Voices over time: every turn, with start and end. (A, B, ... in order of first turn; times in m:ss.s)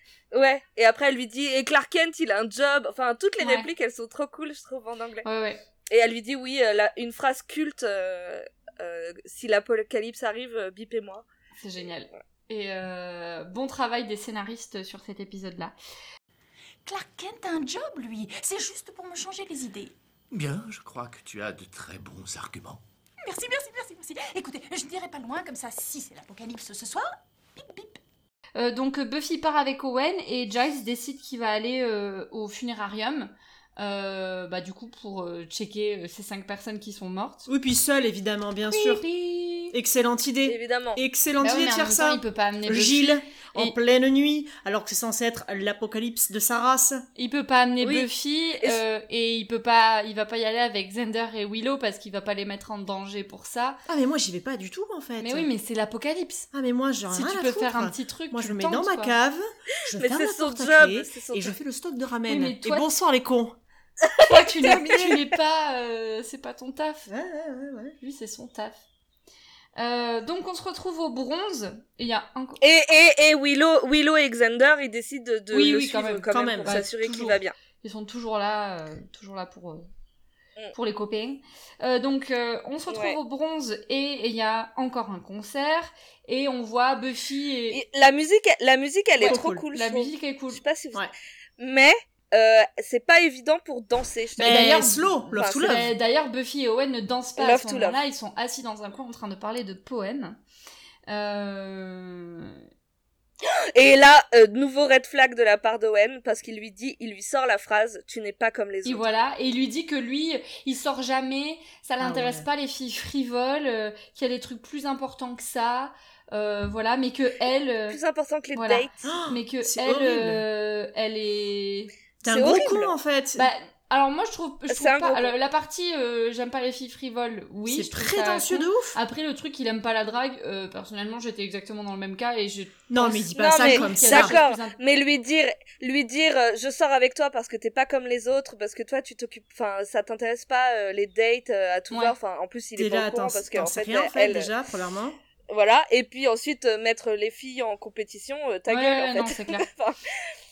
0:00.3-0:05.3 A
0:03.4-0:03.7 B
0:05.2-0:05.6 B
0:05.9-0:11.3 A
0:11.6-0:15.7 B
0:16.8-0:20.0 C
0:20.3-0:22.8 D
0:23.2-0:28.0 C
0:28.6-0:37.5 B
0:37.5-0:39.0 E
0:38.7-0:39.8 B
0:39.7-0:47.1 E
0:40.4-0:41.0 A
0:41.4-0:43.8 B
0:47.2-0:53.8 B
0:47.8-0:48.1 A
0:53.9-0:55.5 E
0:55.2-0:56.5 B
0:56.5-1:03.6 E
0:57.1-0:59.2 B
1:00.0-1:01.6 A
1:02.3-1:02.9 B
1:04.0-1:05.2 A
1:04.2-1:07.1 B
1:07.1-1:08.0 E
1:08.0-1:08.8 B
1:09.8-1:12.6 B
1:12.6-1:17.5 A
1:15.5-1:19.9 B
1:16.3-1:16.8 E
1:20.7-1:27.8 B
1:22.9-1:23.2 A
1:27.7-1:34.8 A
1:29.2-1:29.6 E
1:29.2-1:30.6 B
1:34.4-1:40.4 B
1:34.4-1:36.0 E
1:35.4-1:35.8 A
1:37.4-1:38.0 A
1:41.1-1:42.6 B
1:43.4-1:49.0 A
1:48.8-1:58.0 B
1:52.0-1:52.5 E
1:57.9-1:58.9 A
1:58.6-2:01.9 B
1:59.0-2:00.4 E
2:02.2-2:03.5 E
2:02.2-2:03.0 A
2:03.4-2:14.8 B
2:04.7-2:05.3 A
2:07.7-2:09.0 E
2:12.9-2:14.4 E
2:13.4-2:24.5 A
2:22.8-2:25.2 E
2:25.5-2:30.0 A
2:28.7-2:29.6 B